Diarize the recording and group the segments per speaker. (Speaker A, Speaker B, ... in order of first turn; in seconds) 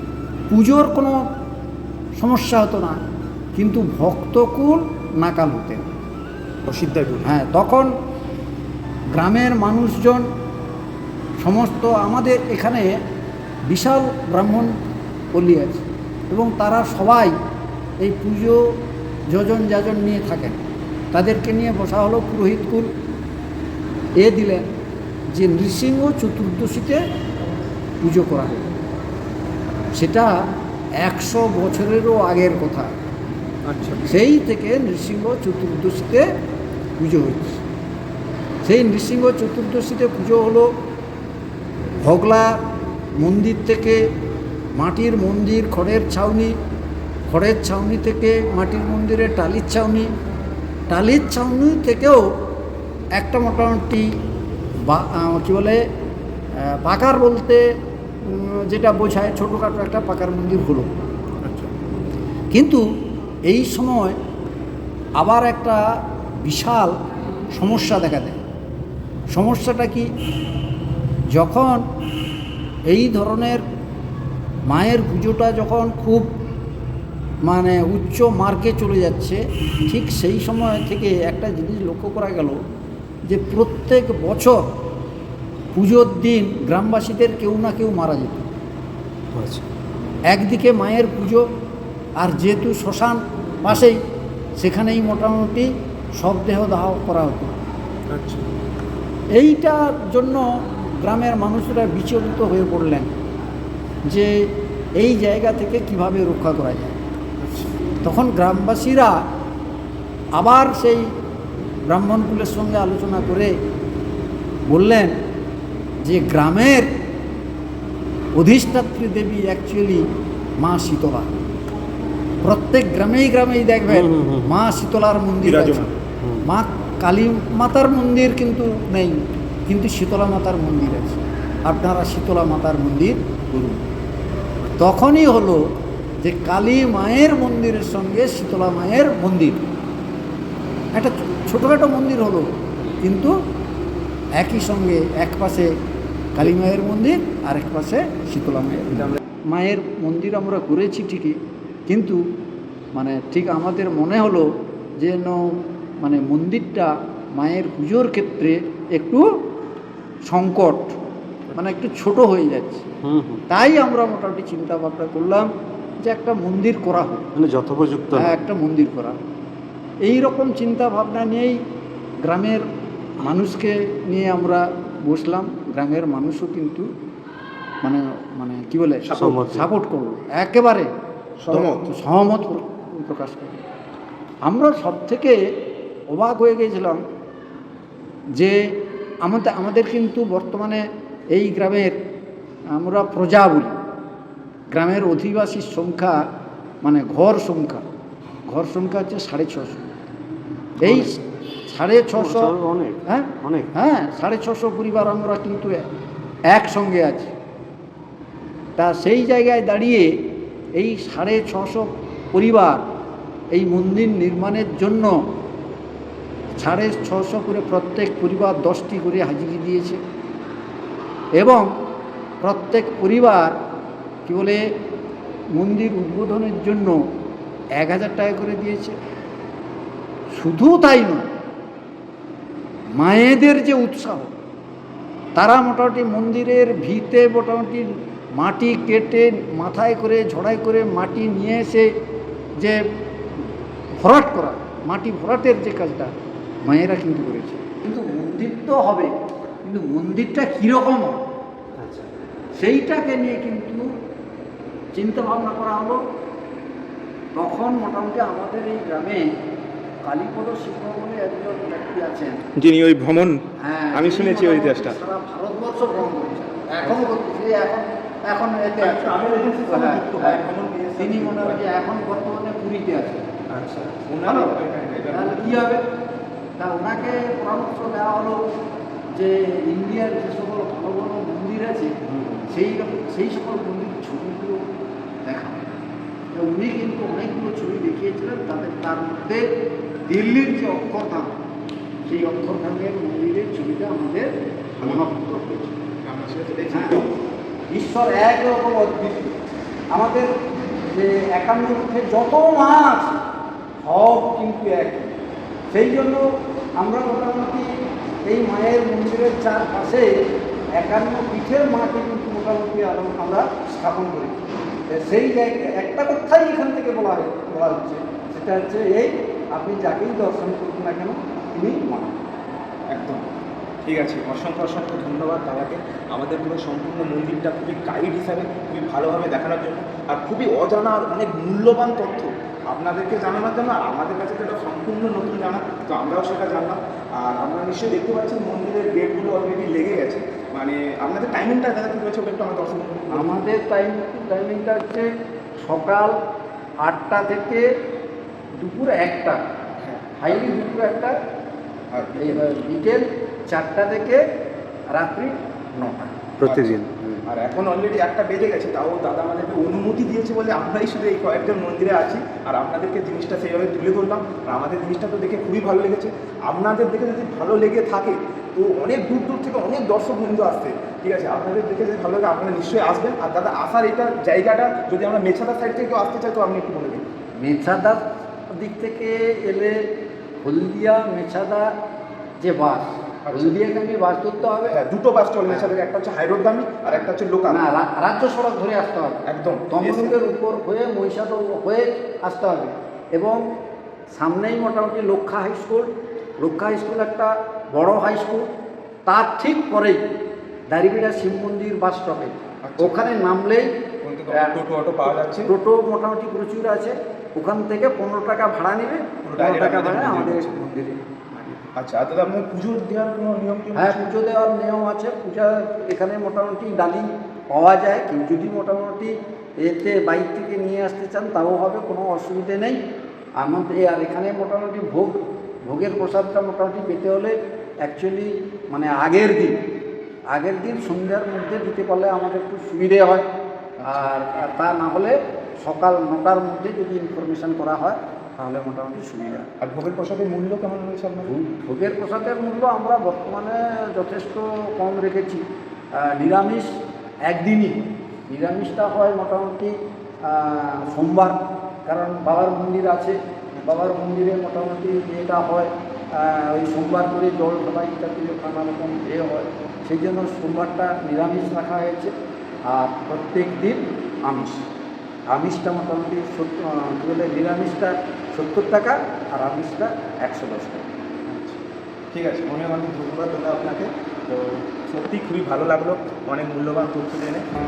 Speaker A: 0.5-1.2, 2.2-3.0, 3.5-5.9, 7.2-7.9, 9.1-10.2, 11.4-12.9, 13.7-14.7, 15.3-17.3, 18.0-18.6, 19.3-20.6, 21.1-22.9, 24.2-24.6, 25.3-27.0, 28.0-28.7, 30.0-30.3, 31.0-33.0, 34.0-36.2, 37.0-37.6, 38.6-40.7, 42.0-42.5, 43.2-44.0, 44.8-46.5, 47.3-50.1, 50.9-52.2, 53.2-54.1, 54.9-55.8, 56.6-57.6, 58.2-60.9, 62.5-62.8, 63.5-64.2, 65.2-65.8, 66.4-66.9, 67.6-68.4, 69.3-70.1, 71.3-71.8, 72.9-73.6, 74.7-76.3, 77.5-82.6, 83.3-84.6, 85.7-88.4, 90.3-91.4, 92.2-94.0, 94.6-97.5, 99.3-100.4, 101.0-103.1, 105.0-107.0, 108.0-109.1, 110.4-111.0, 111.9-113.5, 114.7-115.1, 116.0-116.9, 118.3-120.0, 120.6-121.3, 122.4-125.9, 126.4-133.4, 134.8-135.6, 136.2-139.7, 140.9-142.5, 143.0-143.3, 144.4-145.7, 146.3-152.2, 152.9-154.5, 155.0-159.2, 160.3-160.9, 161.5-162.9, 163.5-165.5, 166.0-167.2, 168.1-169.2, 170.0-171.6, 172.2-172.6, 173.2-176.8, 177.8-180.9, 181.5-183.6, 184.4-185.4, 186.1-187.0, 189.2-190.8, 191.3-192.0, 192.7-193.7, 194.7-196.2, 196.8-197.8, 198.5-199.9, 200.8-202.5, 203.0-205.8, 206.5-207.3, 208.8-210.1, 210.8-212.8, 213.5-215.1, 216.6-220.0, 221.4-221.7, 222.4-223.5, 224.2-224.6, 225.5-227.0, 227.8-229.0, 230.4-231.3, 233.0-234.3, 235.3-237.9, 238.4-241.9, 244.0-246.1, 246.7-249.1, 249.6-251.2, 252.6-253.8, 254.9-256.0, 257.4-259.2, 260.0-262.4, 263.6-273.2, 274.2-274.6, 275.1-275.8, 276.6-278.4, 279.1-281.9, 282.5-284.6, 285.2-285.6, 286.3-289.4, 290.1-291.3, 292.1-295.8, 296.7-297.0, 297.7-299.4, 299.9-303.2, 303.8-305.1, 305.7-306.2, 306.8-307.7, 308.2-310.1, 310.8-322.1, 343.1-345.1, 345.6-346.1, 346.8-347.6, 348.6-349.4, 350.2-351.1, 352.2-354.2, 354.9-356.1, 377.4-378.0, 378.5-379.8, 380.4-381.7, 382.4-384.7, 385.5-385.7, 387.5-393.4, 394.1-398.4, 399.1-400.0, 400.7-403.7, 404.3-411.6, 413.7-422.8, 423.4-429.5, 430.3-433.2, 433.9-439.5, 441.2-445.4, 445.9-446.7, 447.3-449.7, 450.2-453.1, 453.7-462.1, 462.6-464.6, 465.3-470.8
Speaker B: 6.7-7.3, 125.5-125.9, 181.4-181.9, 262.6-263.3, 264.0-264.6, 268.8-271.6, 274.1-275.2, 296.0-297.0, 322.9-323.2, 323.8-336.8, 337.3-343.3, 349.8-350.6, 351.9-352.4, 356.4-377.0, 383.2-383.6, 384.6-387.6, 389.3-390.1, 402.6-402.9, 404.0-405.5, 409.2-410.6, 411.8-414.0, 433.8-434.1, 439.6-441.3, 453.5-453.9, 471.3-471.6, 472.1-477.4
Speaker C: 89.3-89.6, 123.9-124.5, 163.0-163.4, 167.3-168.3, 179.2-179.7, 200.8-201.1, 202.1-203.7, 251.8-252.1, 273.6-274.1, 282.1-282.5, 356.4-357.2